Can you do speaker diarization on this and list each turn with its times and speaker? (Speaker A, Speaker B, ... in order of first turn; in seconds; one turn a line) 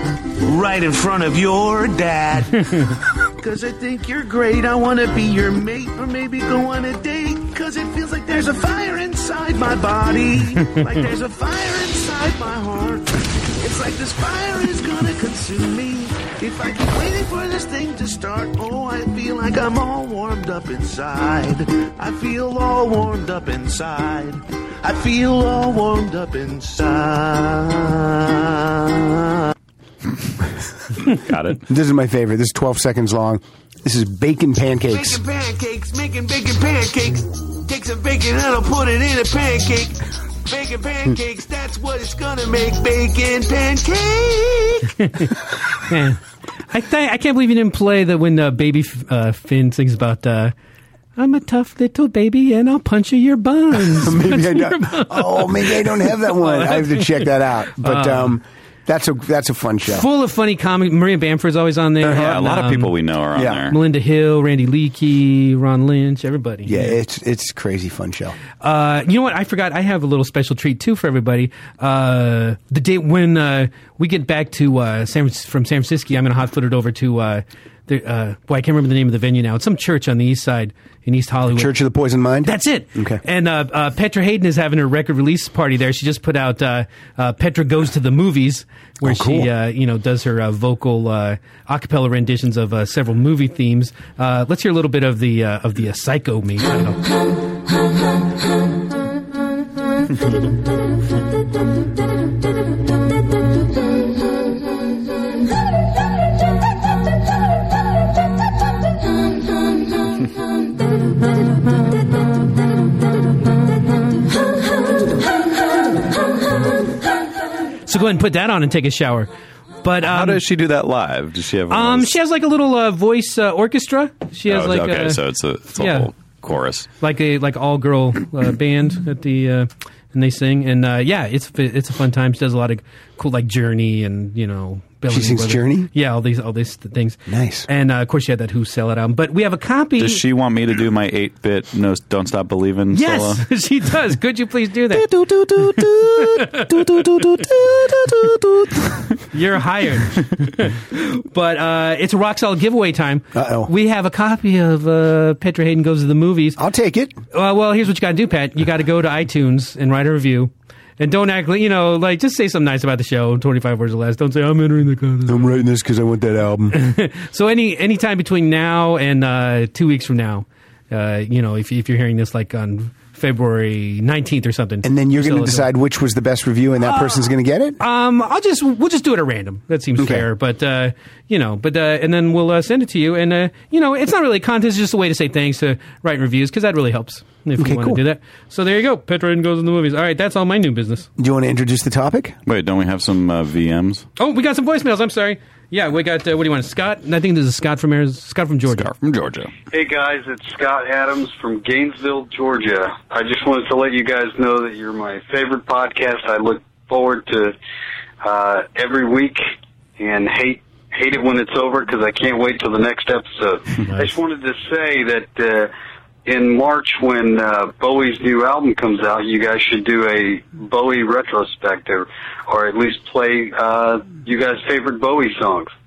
Speaker A: 0.4-29.3
Speaker B: 31.1-31.6
Speaker C: 31.7-35.2
Speaker A: 34.9-44.9
Speaker D: 45.0-46.2
Speaker D: 46.7-50.5
Speaker D: 51.2-58.4
Speaker C: 53.9-60.1
Speaker D: 59.9-62.9
Speaker B: 62.0-63.8
Speaker C: 63.4-63.6
Speaker D: 63.7-67.0
Speaker C: 66.7-68.4
Speaker D: 68.6-81.7
Speaker C: 81.5-83.2
Speaker D: 82.4-97.0
Speaker C: 89.0-89.5
Speaker D: 117.8-119.3
Speaker D: 119.8-120.4
Speaker B: 120.0-122.2
Speaker D: 121.7-125.2
Speaker B: 124.5-126.9
Speaker D: 125.8-126.1
Speaker D: 127.0-140.2
Speaker C: 135.1-135.9
Speaker C: 137.3-137.7
Speaker B: 140.0-143.4
Speaker D: 142.9-145.1
Speaker C: 144.9-148.9
Speaker D: 145.6-147.4
Speaker D: 149.3-156.6
Speaker C: 153.3-153.7
Speaker C: 156.6-157.2
Speaker D: 157.3-165.5
Speaker C: 165.3-166.8
Speaker D: 166.7-175.7
Speaker C: 174.8-177.8
Speaker D: 176.8-177.2
Speaker D: 177.8-191.1
Speaker C: 180.0-180.3
Speaker C: 187.6-188.0
Speaker C: 191.2-192.4
Speaker B: 192.5-194.1
Speaker D: 194.2-198.9
Speaker B: 198.7-199.5
Speaker E: 199.7-207.5
Speaker E: 208.2-209.4
Speaker E: 210.0-215.7
Speaker D: 213.9-214.1
Speaker E: 216.3-225.7